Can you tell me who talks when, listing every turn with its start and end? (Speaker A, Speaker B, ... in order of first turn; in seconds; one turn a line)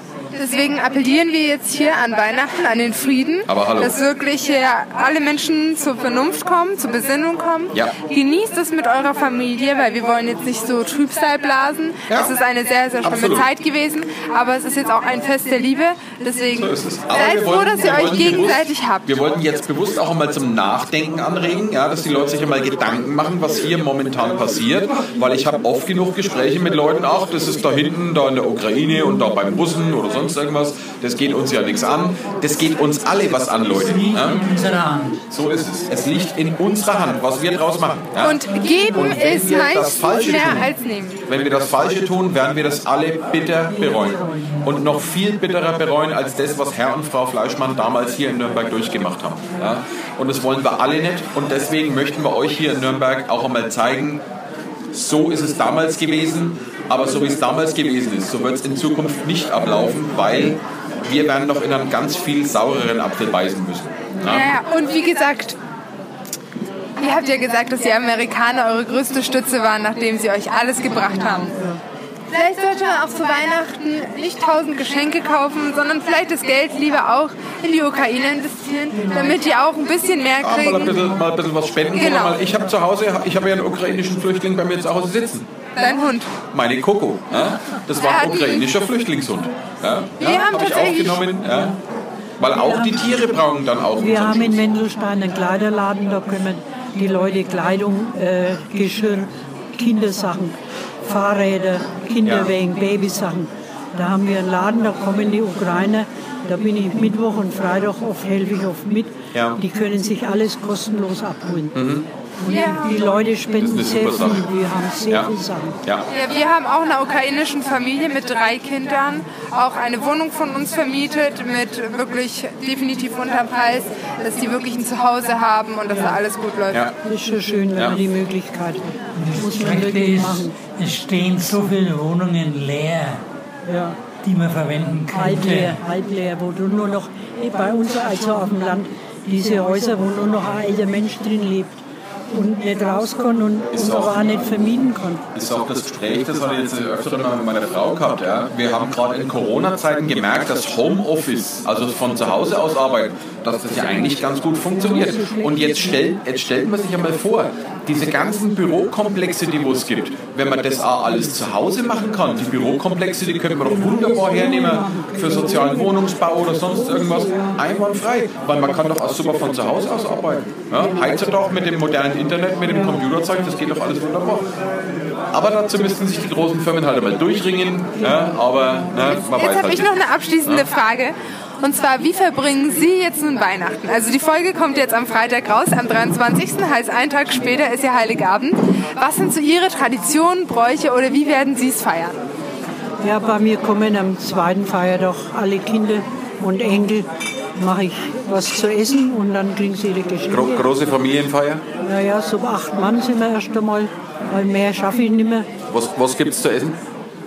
Speaker A: 0.3-19.2
Speaker B: 3.5-4.0
Speaker B: 12.1-12.3
Speaker B: 13.0-13.5
Speaker B: 16.6-34.4
Speaker C: 33.7-35.2
Speaker B: 35.3-40.7
Speaker A: 38.2-41.2
Speaker B: 41.3-54.2
Speaker D: 43.7-44.7
Speaker B: 54.9-64.5
Speaker A: 64.2-65.6
Speaker A: 67.0-71.5
Speaker D: 71.1-71.8
Speaker A: 72.3-81.1
Speaker D: 79.0-79.4
Speaker B: 80.4-85.5
Speaker A: 81.9-82.4
Speaker A: 85.8-86.3
Speaker B: 86.5-91.8
Speaker A: 88.0-88.7
Speaker A: 90.2-91.4
Speaker B: 92.4-94.6
Speaker D: 92.4-93.0
Speaker D: 94.0-111.8
Speaker B: 102.2-102.5
Speaker B: 109.3-109.6
Speaker B: 111.7-112.1
Speaker D: 112.4-115.8
Speaker A: 112.5-113.0
Speaker B: 113.6-114.5
Speaker A: 116.1-126.8
Speaker D: 127.0-128.8
Speaker B: 127.8-128.0
Speaker C: 129.2-133.2
Speaker D: 129.4-130.6
Speaker D: 133.7-134.0
Speaker C: 134.2-135.8
Speaker D: 135.1-145.2
Speaker B: 143.7-144.6
Speaker B: 145.3-174.5
Speaker D: 154.8-156.0
Speaker D: 163.7-166.0
Speaker D: 166.9-167.6
Speaker B: 175.3-180.7
Speaker A: 179.3-192.2
Speaker D: 193.0-200.7
Speaker B: 200.3-201.6
Speaker D: 201.8-205.5
Speaker B: 205.7-206.8